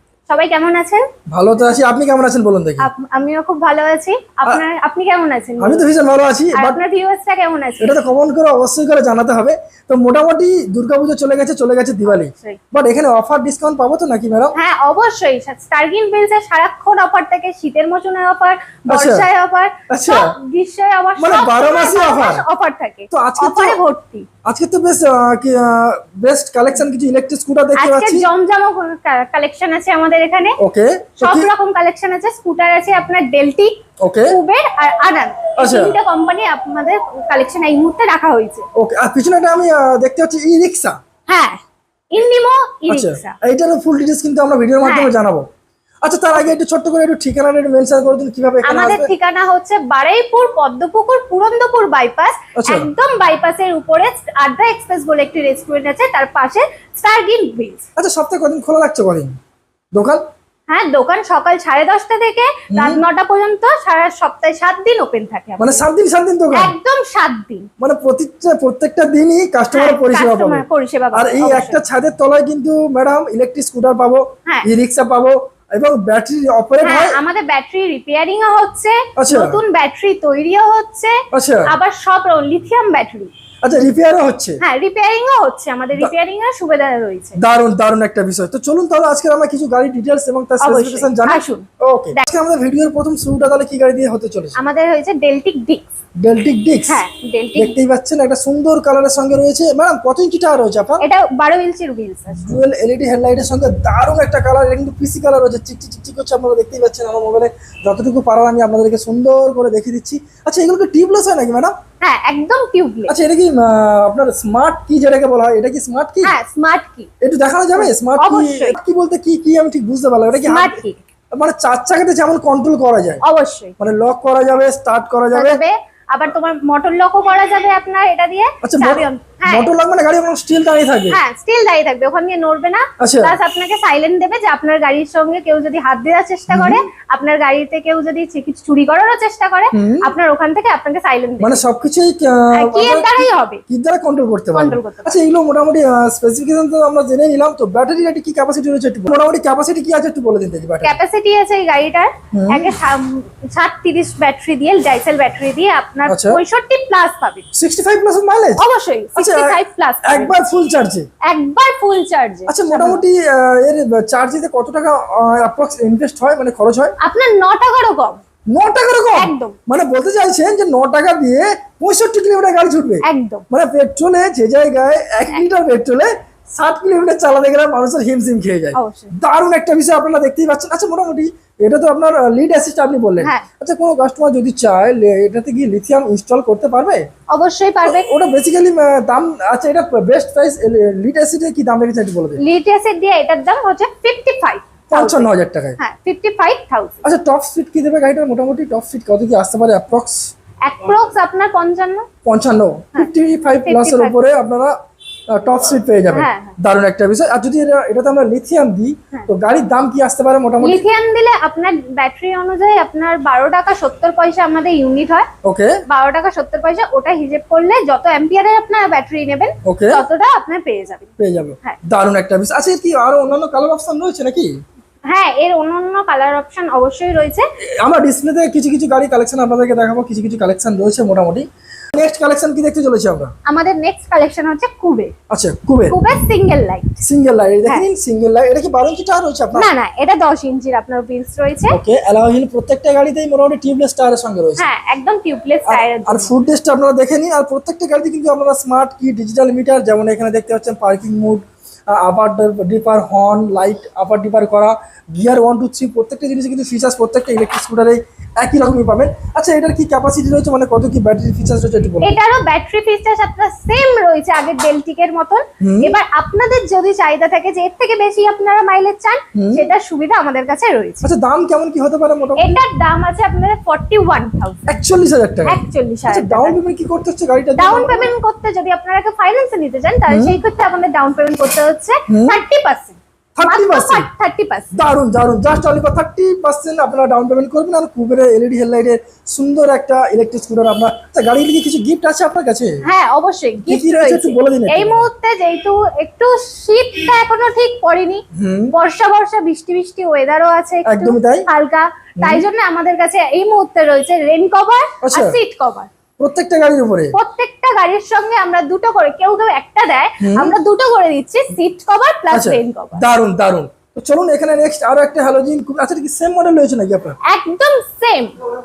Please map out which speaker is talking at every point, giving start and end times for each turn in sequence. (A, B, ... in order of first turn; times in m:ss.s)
0:00.3-0:01.0 A
0:01.3-0:02.9 B
0:02.8-0:05.9 A
0:05.6-0:06.8 B
0:06.5-0:08.0 A
0:07.8-0:14.6 B
0:12.1-0:12.6 A
0:14.6-0:24.3 A
0:18.9-0:19.3 B
0:19.9-0:20.3 B
0:21.2-0:22.4 B
0:23.1-0:23.8 B
0:24.4-0:28.3 B
0:27.8-0:30.6 A
0:30.6-0:31.5 B
0:31.2-0:33.8 A
0:34.0-0:34.4 B
0:34.3-0:38.7 A
0:35.6-0:36.0 B
0:38.8-0:41.0 B
0:41.3-0:41.6 A
0:42.1-0:43.4 A
0:42.9-0:45.4 B
0:44.8-0:45.1 A
0:46.0-0:49.1 B
0:48.6-0:57.8 A
0:52.6-0:52.9 B
0:58.0-0:59.4 B
0:59.9-1:00.2 B
1:00.7-1:05.8 A
1:02.7-1:03.0 B
1:05.6-1:06.8 B
1:06.5-1:07.7 A
1:07.8-1:10.6 B
1:09.7-1:11.8 A
1:11.1-1:17.2 B
1:16.8-1:23.3 A
1:19.2-1:19.6 B
1:21.3-1:21.8 B
1:23.6-1:24.6 B
1:24.6-1:27.4 A
1:27.4-1:34.6 B
1:30.6-1:32.2 A
1:34.6-1:35.9 A
1:36.2-1:37.0 B
1:36.9-1:37.8 A
1:37.6-1:41.0 B
1:41.0-1:42.5 A
1:42.3-1:51.7 B
1:52.0-1:53.2 A
1:53.1-1:56.3 B
1:56.2-1:57.1 A
1:57.2-2:00.8 B
1:57.8-1:58.8 A
2:00.4-2:01.0 A
2:01.3-2:03.2 B
2:03.2-2:03.7 A
2:03.8-2:05.6 B
2:05.3-2:09.7 A
2:08.6-2:11.2 B
2:11.1-2:21.6 A
2:13.0-2:13.4 B
2:16.5-2:16.9 B
2:19.7-2:20.1 B
2:21.4-2:31.0 B
2:22.5-2:23.6 A
2:24.5-2:25.2 A
2:30.8-2:37.5 A
2:32.3-2:32.7 B
2:36.1-2:36.4 B
2:37.5-2:38.6 B
2:38.6-2:40.4 A
2:39.2-2:41.1 B
2:41.2-2:43.0 A
2:42.5-2:47.0 B
2:47.0-2:48.2 A
2:48.5-3:07.0 B
2:49.1-2:49.6 A
2:53.0-2:53.5 A
2:58.7-2:59.2 A
3:07.3-3:08.1 A
3:07.8-3:12.4 B
3:12.4-3:15.3 A
3:14.9-3:15.8 B
3:15.8-3:17.1 A
3:17.0-3:20.3 B
3:20.6-3:22.1 A
3:22.2-3:24.8 B
3:23.7-3:24.2 A
3:25.3-3:30.8 B
3:26.1-3:26.6 A
3:30.6-3:35.3 A
3:35.4-3:35.8 B
3:35.9-3:41.1 A
3:39.6-3:40.0 B
3:41.2-3:44.5 B
3:45.1-3:47.4 A
3:47.8-3:53.3 B
3:53.5-3:55.1 A
3:55.3-3:56.0 B
3:55.9-3:57.0 A
3:57.0-3:59.7 B
3:59.6-4:01.8 A
4:01.7-4:04.7 B
4:04.6-4:06.3 A
4:05.7-4:22.2 B
4:22.0-4:31.0 A
4:25.6-4:26.0 B
4:29.4-4:29.7 B
4:31.0-4:32.6 B
4:32.4-4:34.8 A
4:34.7-4:38.1 B
4:35.5-4:36.6 A
4:37.6-4:44.7 A
4:40.1-4:40.4 B
4:42.1-4:42.4 B
4:43.4-4:44.1 B
4:44.7-4:52.8 B
4:52.8-4:58.2 A
4:53.6-4:55.1 B
4:58.4-4:58.8 B
4:58.7-5:05.9 A
5:00.9-5:01.5 B
5:02.2-5:02.5 B
5:05.0-5:05.4 B
5:06.2-5:07.1 B
5:07.1-5:13.0 A
5:10.2-5:10.6 B
5:12.3-5:17.2 B
5:17.2-5:18.4 A